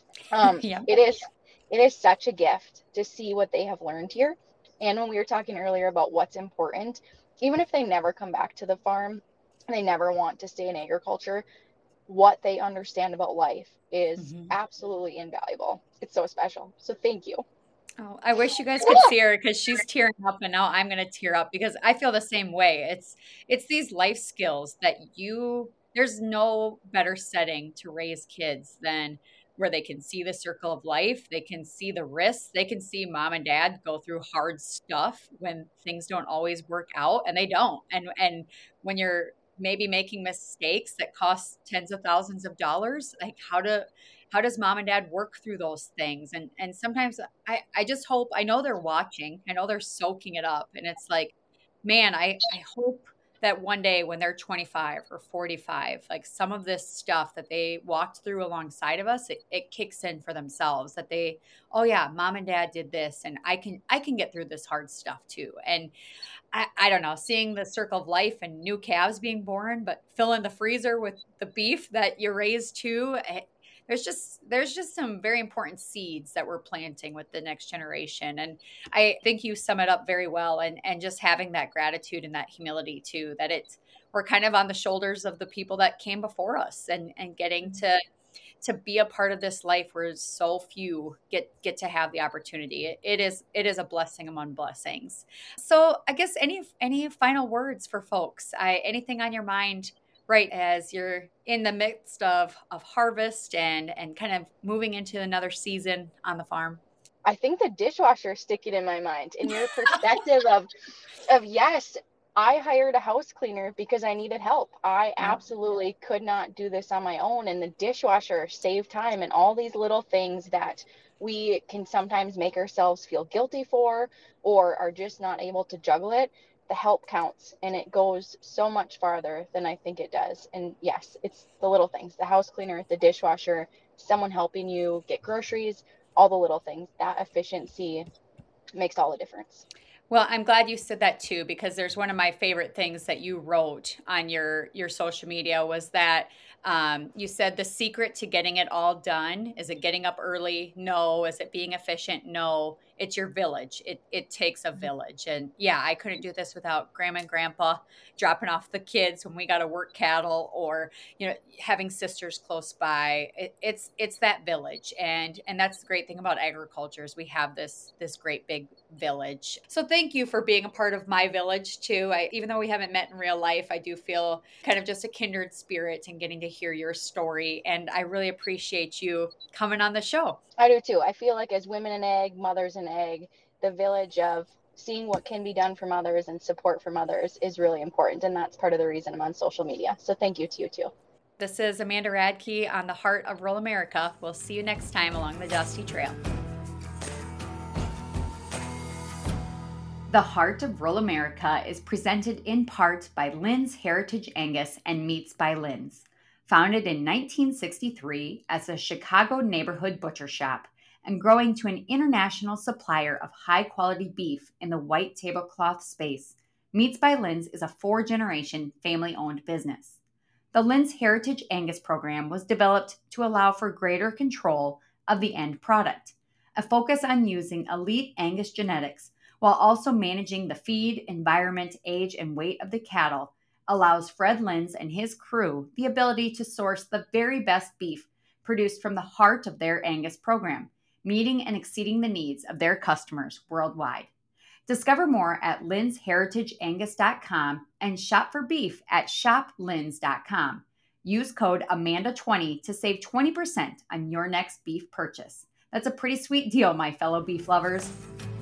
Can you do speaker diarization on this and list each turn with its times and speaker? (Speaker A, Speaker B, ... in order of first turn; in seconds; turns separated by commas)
Speaker A: 0.3-11.5, Speaker B: 0.5-0.9, Speaker A: 12.1-17.4, Speaker B: 14.2-14.5, Speaker B: 18.0-65.9, Speaker A: 18.8-19.1, Speaker B: 66.5-88.0, Speaker B: 88.6-106.8, Speaker A: 107.2-110.7, Speaker A: 111.3-138.0, Speaker A: 138.7-139.6, Speaker B: 140.1-180.4, Speaker A: 180.6-190.9, Speaker B: 191.4-196.2, Speaker B: 200.1-220.0, Speaker B: 220.5-244.1, Speaker B: 244.7-257.9